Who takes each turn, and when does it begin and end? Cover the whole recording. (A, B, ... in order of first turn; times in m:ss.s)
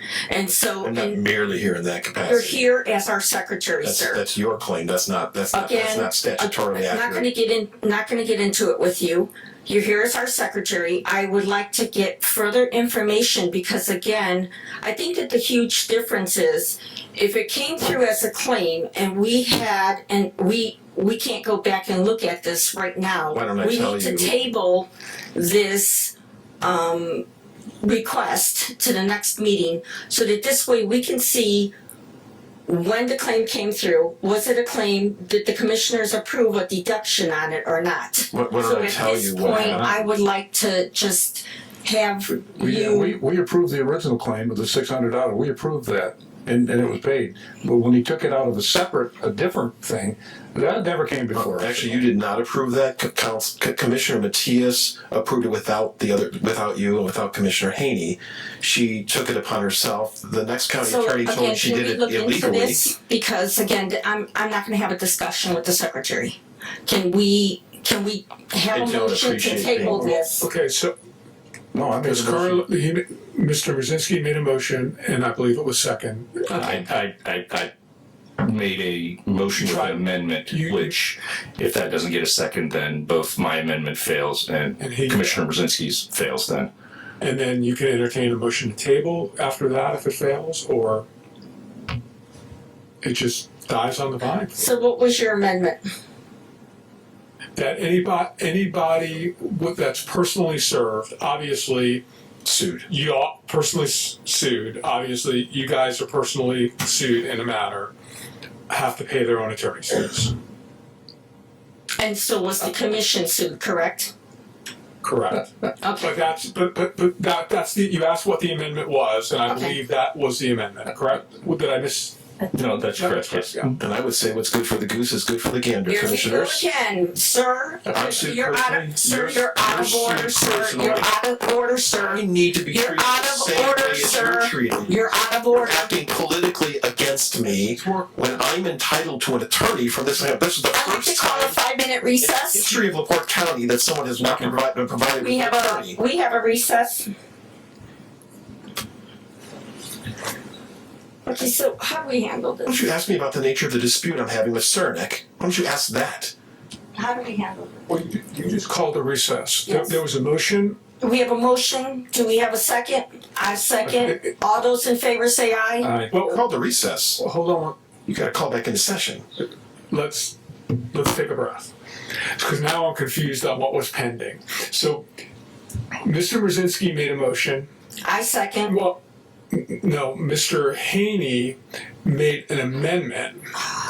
0:00.3-0:01.2 A
0:00.8-0:02.6 B
0:02.2-0:04.2 A
0:03.8-0:07.2 B
0:05.5-0:27.2 A
0:23.3-0:24.4 B
0:27.8-0:31.7 A
0:32.7-0:43.2 A
0:38.3-0:39.9 B
0:42.6-0:52.0 C
0:51.3-1:02.9 B
1:00.8-1:10.4 A
1:08.7-1:10.1 B
1:10.4-1:10.9 D
1:11.7-1:12.6 C
1:12.0-1:16.8 D
1:16.5-1:17.7 E
1:18.4-1:26.7 E
1:19.6-1:21.0 D
1:24.8-1:25.4 D
1:27.2-1:31.1 D
1:33.0-1:34.6 D
1:34.6-1:35.8 A
1:37.6-1:42.0 D
1:42.4-1:42.9 B
1:42.9-1:47.9 D
1:48.7-1:50.3 D
1:52.0-1:54.1 A
1:55.0-2:02.2 D
1:55.8-1:56.1 A
1:59.5-1:59.8 A
2:02.5-2:03.8 E
2:03.0-2:03.7 D
2:03.8-2:06.7 B
2:05.9-2:15.9 A
2:07.9-2:11.1 B
2:12.0-2:21.6 B
2:17.5-2:18.4 D
2:20.7-2:22.7 A
2:22.2-2:26.0 B
2:25.2-2:27.1 A
2:31.2-2:32.8 A
2:32.7-2:36.3 B
2:37.0-2:37.8 A
2:37.9-2:40.8 D
2:39.7-2:40.0 A
2:41.0-2:45.9 A
2:43.9-2:44.3 D
2:46.1-2:46.4 D
2:46.2-2:47.2 B
2:47.2-2:47.8 D
2:48.1-2:49.2 B
2:49.9-2:50.4 D
2:50.9-2:51.7 D
2:52.4-2:55.1 D
2:56.0-2:57.7 D
2:58.0-2:58.7 A
2:58.7-2:59.0 D
2:59.5-3:03.5 D